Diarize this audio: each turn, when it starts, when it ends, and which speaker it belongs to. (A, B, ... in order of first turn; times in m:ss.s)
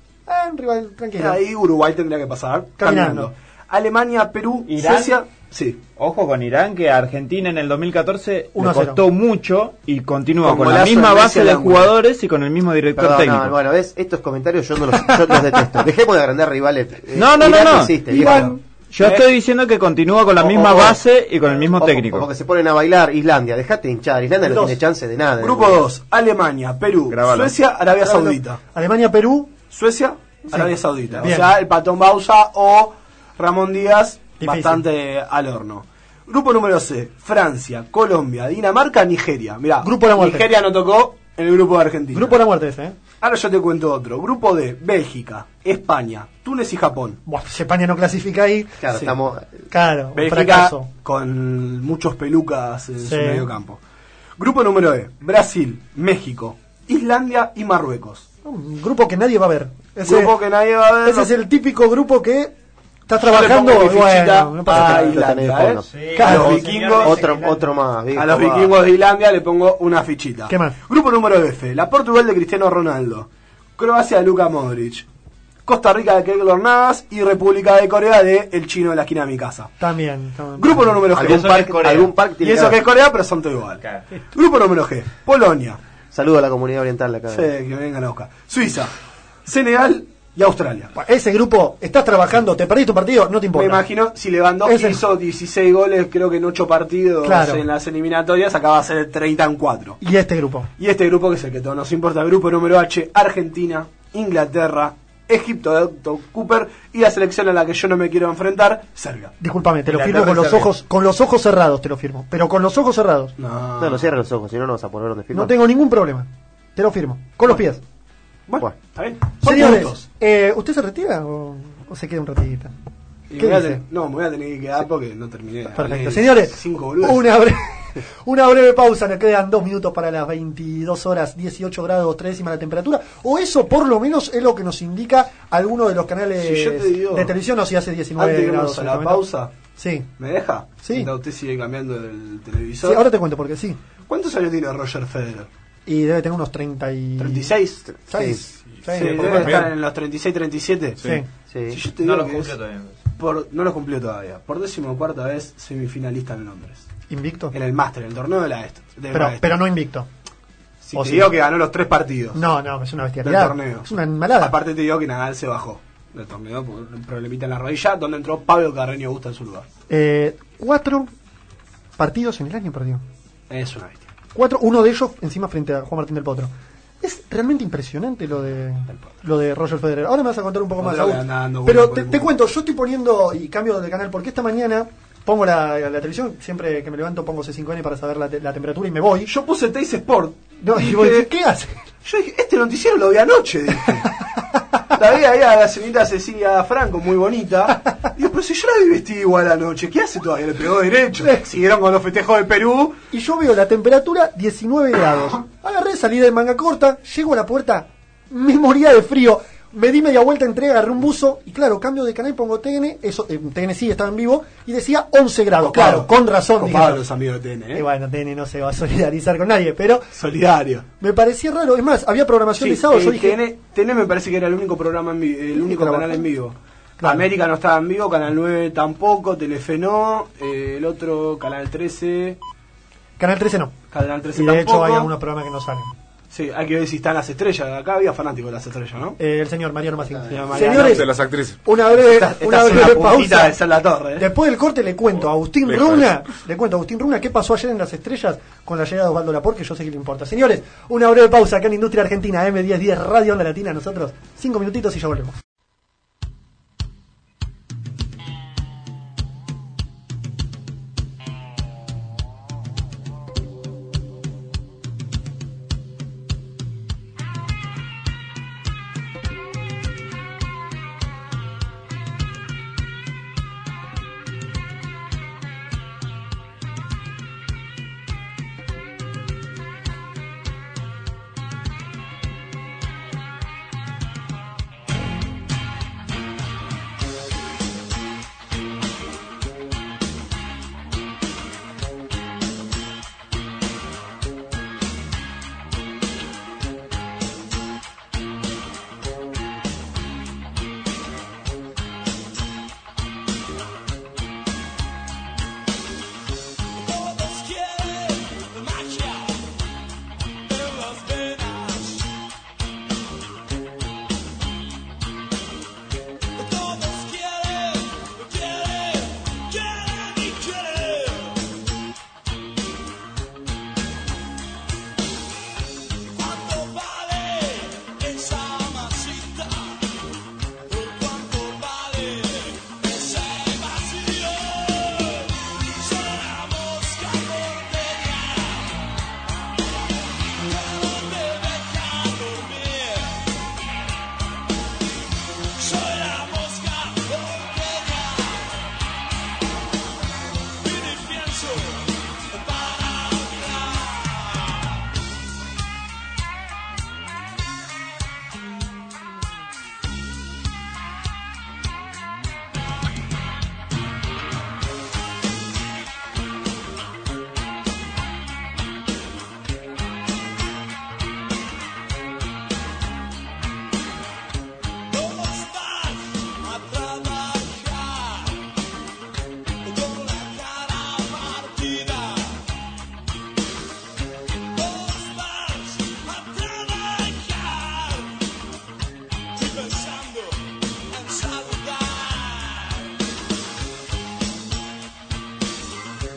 0:00.3-0:01.4 A
0:01.2-0:05.8 B
0:02.8-0:03.3 A
0:04.6-0:05.2 C
0:06.0-0:13.5 C
0:08.5-0:09.0 A
0:10.4-0:11.9 B
0:13.0-0:18.5 D
0:14.9-0:15.8 A
0:17.1-0:22.3 C
0:18.1-0:18.6 A
0:20.4-0:20.9 D
0:20.6-0:20.9 B
0:21.6-0:25.8 D
0:24.4-0:24.8 A
0:25.4-0:28.6 B
0:27.1-0:27.6 C
0:28.0-0:29.6 A
0:29.6-0:42.4 B
0:30.5-0:31.6 A
0:34.4-0:34.8 A
0:39.8-0:40.5 A
0:42.1-0:43.0 A
0:43.2-0:47.2 B
0:47.2-0:48.8 A
0:48.8-0:49.6 D
0:49.7-0:50.9 A
0:50.1-0:53.8 B
0:53.0-0:53.5 A
0:54.4-0:58.2 B
0:58.4-1:00.4 A
1:00.0-1:01.3 B
1:01.0-1:02.5 A
1:03.1-1:05.2 A
1:03.2-1:07.1 B
1:04.7-1:08.7 D
1:05.8-1:07.6 C
1:06.2-1:07.4 A
1:08.1-1:15.0 B
1:10.5-1:10.8 A
1:15.6-1:19.7 B
1:19.8-1:21.1 A
1:20.6-1:21.8 B
1:21.1-1:22.8 D
1:21.2-1:22.1 C
1:22.4-1:23.8 B
1:24.3-1:25.8 B
1:26.1-1:27.5 D
1:27.3-1:28.9 B
1:29.4-1:30.9 B
1:30.9-1:33.9 A
1:33.5-1:40.0 B
1:34.6-1:35.0 A
1:37.2-1:37.6 A
1:40.0-1:40.7 A
1:40.8-1:49.3 B
1:49.4-1:53.3 A
1:49.9-1:50.7 C
1:53.4-1:54.1 B
1:53.8-1:55.5 D
1:55.3-1:57.8 A
1:58.5-2:00.0 B
1:59.4-2:02.7 A
2:03.3-2:07.2 B
2:03.4-2:03.8 A
2:05.7-2:20.1 A
2:16.4-2:17.3 B
2:18.2-2:19.5 B
2:20.2-2:23.0 B
2:20.8-2:21.1 A
2:22.8-2:23.8 A
2:24.1-2:25.5 B
2:25.8-2:29.7 A
2:27.2-2:27.8 B
2:27.9-2:28.4 D
2:28.9-2:31.2 B
2:28.9-2:29.7 E
2:31.0-2:31.3 A
2:31.5-2:31.8 D
2:31.7-2:32.5 B
2:32.0-2:33.0 C
2:33.2-2:36.9 B
2:37.1-2:37.5 A
2:37.5-2:39.6 B
2:39.1-2:40.1 A
2:40.8-2:42.4 B
2:41.0-2:41.3 A
2:42.3-2:44.6 A
2:43.2-2:49.7 B
2:49.9-2:51.1 A
2:52.0-2:53.0 A
2:53.5-2:54.1 B
2:54.3-3:09.3 A
3:00.8-3:02.3 B
3:09.3-3:11.3 B
3:10.6-3:11.8 A
3:12.0-3:14.1 B
3:13.9-3:14.6 A
3:14.9-3:23.0 B
3:21.2-3:21.4 A
3:23.1-3:37.0 A
3:35.6-3:37.8 B
3:37.7-3:40.1 A
3:40.1-3:40.8 B
3:41.0-3:43.4 A
3:42.6-3:52.4 B
3:45.5-3:46.3 A
3:47.0-3:47.3 A
3:53.2-3:53.8 A
3:53.9-3:55.1 B
3:54.3-3:55.9 A
3:56.3-3:59.2 B
3:59.2-4:01.1 A
4:00.3-4:01.1 B
4:00.3-4:00.5 D
4:00.7-4:01.6 E
4:01.6-4:03.6 A
4:01.9-4:04.3 B
4:04.2-4:15.4 A
4:05.7-4:06.0 E